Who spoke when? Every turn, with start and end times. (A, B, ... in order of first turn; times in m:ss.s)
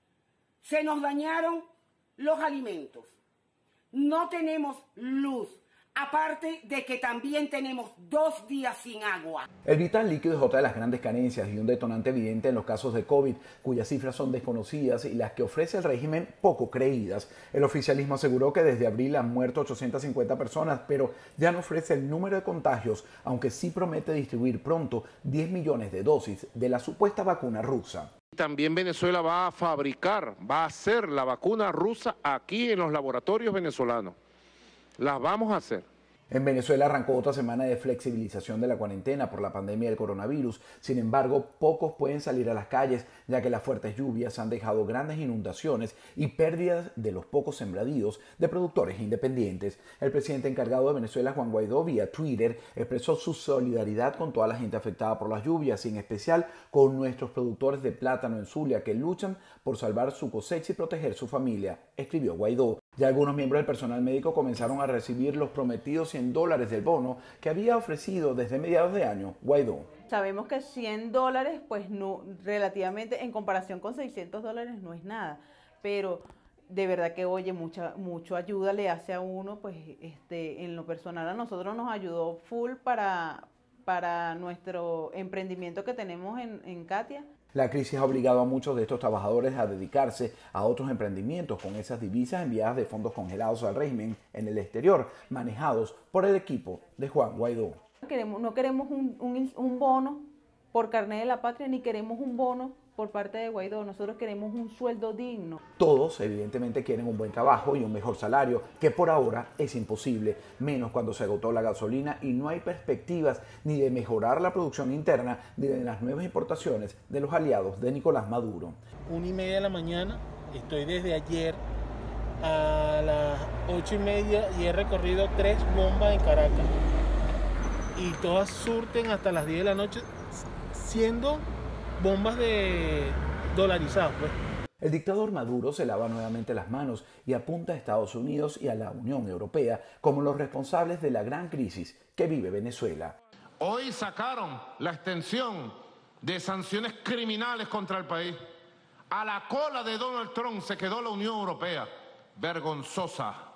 0:00.6-0:03.1 A
0:03.9-0:09.4 A
0:09.6-0:28.1 B
0:28.3-0:34.2 C
0:35.0-0:35.9 C
0:36.3-1:09.9 B
1:10.1-1:27.3 D
1:27.5-1:37.8 B
1:38.1-1:45.6 D
1:45.8-1:58.8 B
1:59.1-2:01.6 E
2:02.4-2:06.7 E
2:08.0-2:10.1 E
2:10.7-2:11.4 E
2:12.0-2:14.4 E
2:14.8-2:23.2 B
2:23.6-2:28.4 C
2:29.1-2:33.4 C